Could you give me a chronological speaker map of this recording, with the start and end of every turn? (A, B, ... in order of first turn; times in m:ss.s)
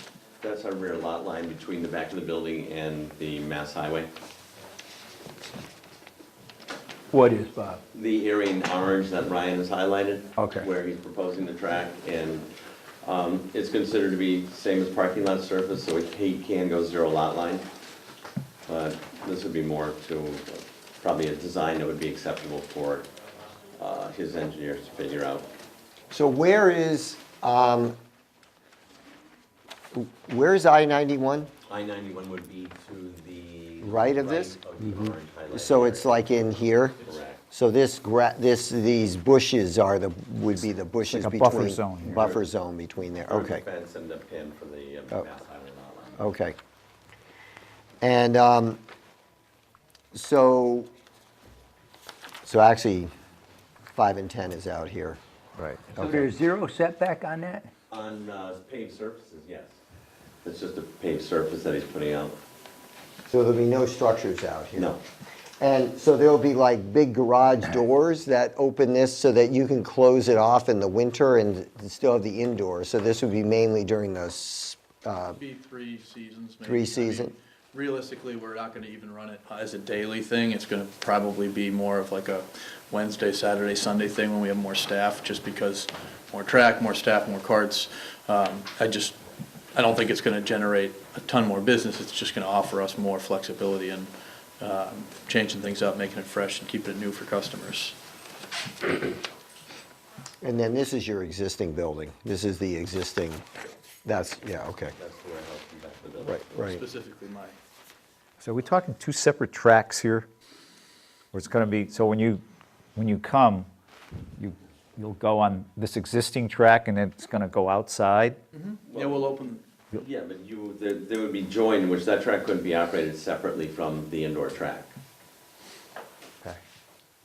0:00.4-0:04.1 A
0:07.1-0:07.8 B
0:07.9-0:12.5 A
0:10.4-0:10.7 B
0:13.0-0:17.7 A
0:18.7-0:23.1 A
0:23.8-0:25.5 A
0:26.1-0:28.0 C
0:29.9-0:31.5 C
0:31.6-0:36.2 A
0:33.8-0:34.6 C
0:34.8-0:35.1 B
0:35.5-0:43.6 C
0:37.0-0:37.4 A
0:41.0-0:42.2 D
0:42.1-0:42.4 A
0:43.2-0:46.2 A
0:46.2-0:46.6 C
0:48.0-0:48.8 C
0:50.1-0:50.9 C
0:52.4-0:53.1 C
0:53.9-0:55.2 C
0:55.6-0:55.9 D
0:55.9-0:57.7 B
0:56.0-0:56.3 C
0:57.9-0:59.7 A
1:00.4-1:02.4 A
1:03.3-1:04.9 C
1:04.8-1:05.0 A
1:05.6-1:15.4 C
1:15.4-1:29.2 E
1:16.6-1:17.3 C
1:29.7-1:38.0 E
1:40.4-1:43.4 C
1:44.0-1:44.9 C
1:45.0-1:46.4 A
1:46.2-1:46.8 C
1:46.6-1:47.6 E
1:48.4-1:50.3 D
1:51.3-1:52.4 D
1:53.0-1:53.7 D
1:54.4-1:58.4 D
1:58.5-1:59.6 E
1:58.9-1:59.2 A
1:59.9-2:04.9 A